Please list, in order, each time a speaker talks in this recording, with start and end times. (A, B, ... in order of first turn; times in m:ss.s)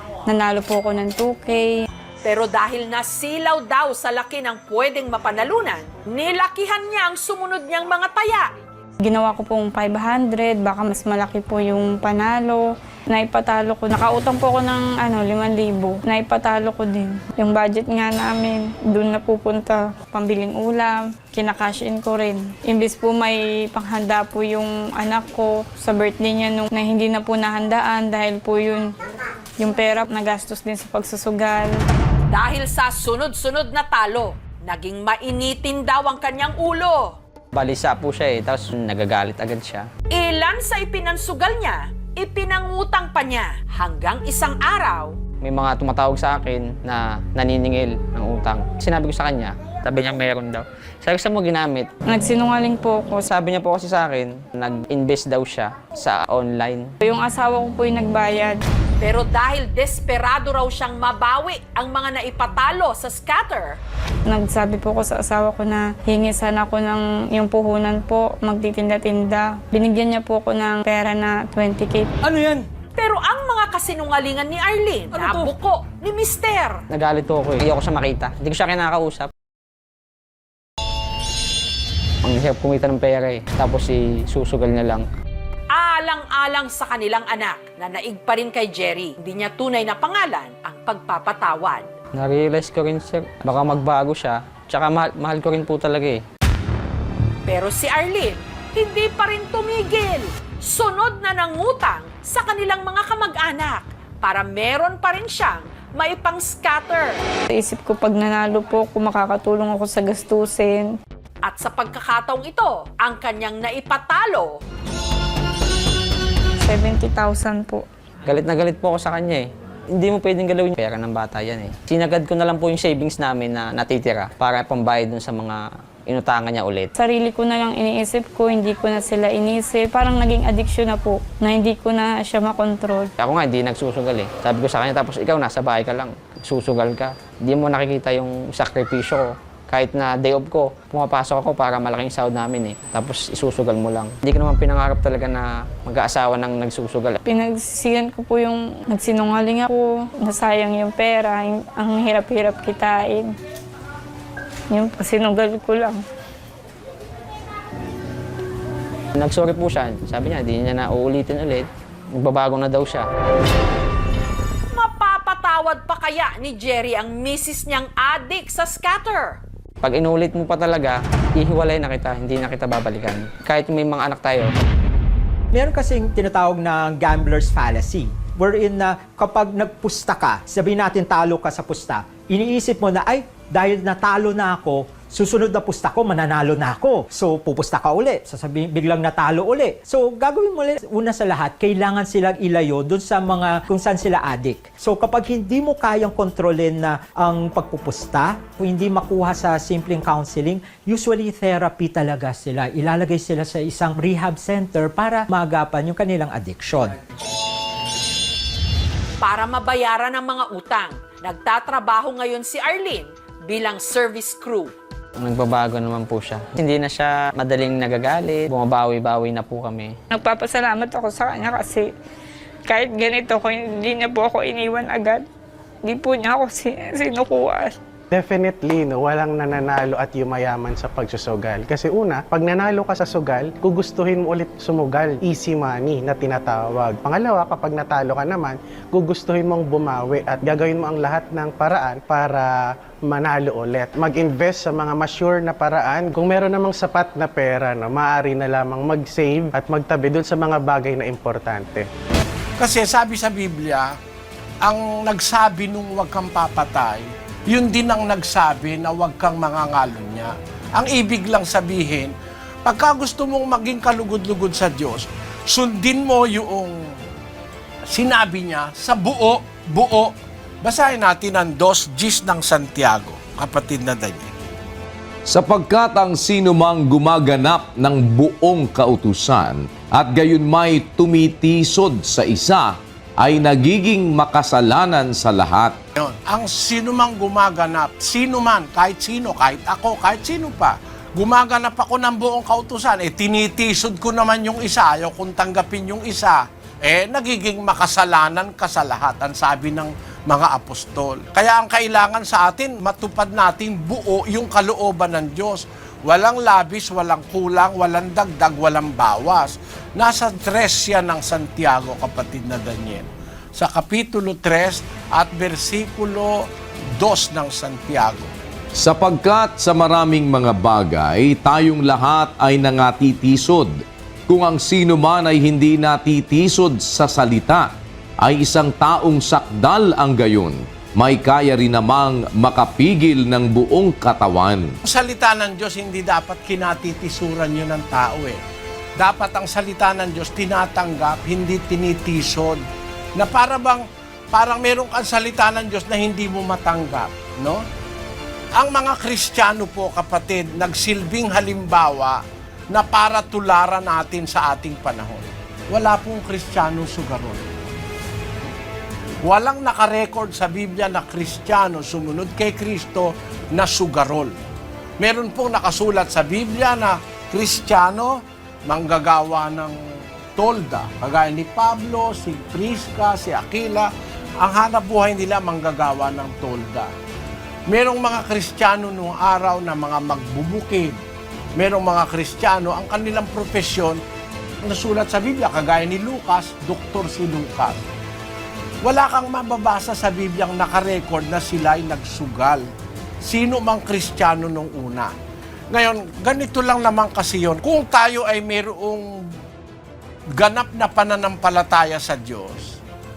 0:00.3-0:01.7 A
0:02.2-0:08.5 B
0:09.0-0:28.9 A
0:29.6-0:31.7 A
0:32.3-0:37.2 B
0:37.5-0:39.9 C
0:40.1-0:45.1 B
0:45.4-0:51.9 C
0:52.0-0:53.2 A
0:53.2-0:56.9 C
0:57.0-0:58.6 A
0:59.0-1:03.8 B
1:04.3-1:12.1 A
1:13.0-1:16.8 B
1:16.9-1:19.3 C
1:22.2-1:25.0 C
1:25.7-1:31.9 B
1:32.1-1:36.2 C
1:37.5-1:47.2 B
1:47.5-1:50.9 A
1:51.4-1:54.6 B
1:56.6-1:57.8 A
1:58.2-2:06.9 C
2:07.0-2:13.1 A
2:13.2-2:27.2 C
2:27.2-2:33.3 A
2:34.7-2:36.0 A
2:39.2-2:43.1 C
2:44.7-2:49.4 B
2:49.8-2:54.5 C
2:55.5-3:27.0 D
3:29.2-3:34.7 B
3:35.2-3:39.9 C
3:40.1-3:41.9 A
3:42.6-3:45.2 A
3:45.8-3:47.8 A
3:48.1-4:02.5 E
4:03.0-4:11.8 E
4:12.6-4:13.9 F
4:14.6-4:22.1 F
4:22.6-4:26.7 F
4:27.9-4:30.1 F
4:30.6-4:34.3 F
4:35.2-4:45.8 G
4:46.0-5:16.4 F
5:17.0-5:18.3 F
5:18.8-5:23.7 G
5:24.3-5:27.7 G
5:28.2-5:34.7 G
5:34.8-5:38.4 F
5:39.0-5:42.6 F
5:43.2-5:47.6 F
5:48.6-5:52.2 F
5:52.7-5:57.5 F
5:59.2-6:04.3 F
6:05.0-6:09.7 F
6:10.4-6:16.9 F
6:17.7-6:21.0 F
6:21.6-6:24.0 F
6:24.6-6:27.8 F
6:28.8-6:32.6 F
6:33.2-6:35.1 F
6:35.7-6:39.1 F
6:40.3-6:42.8 F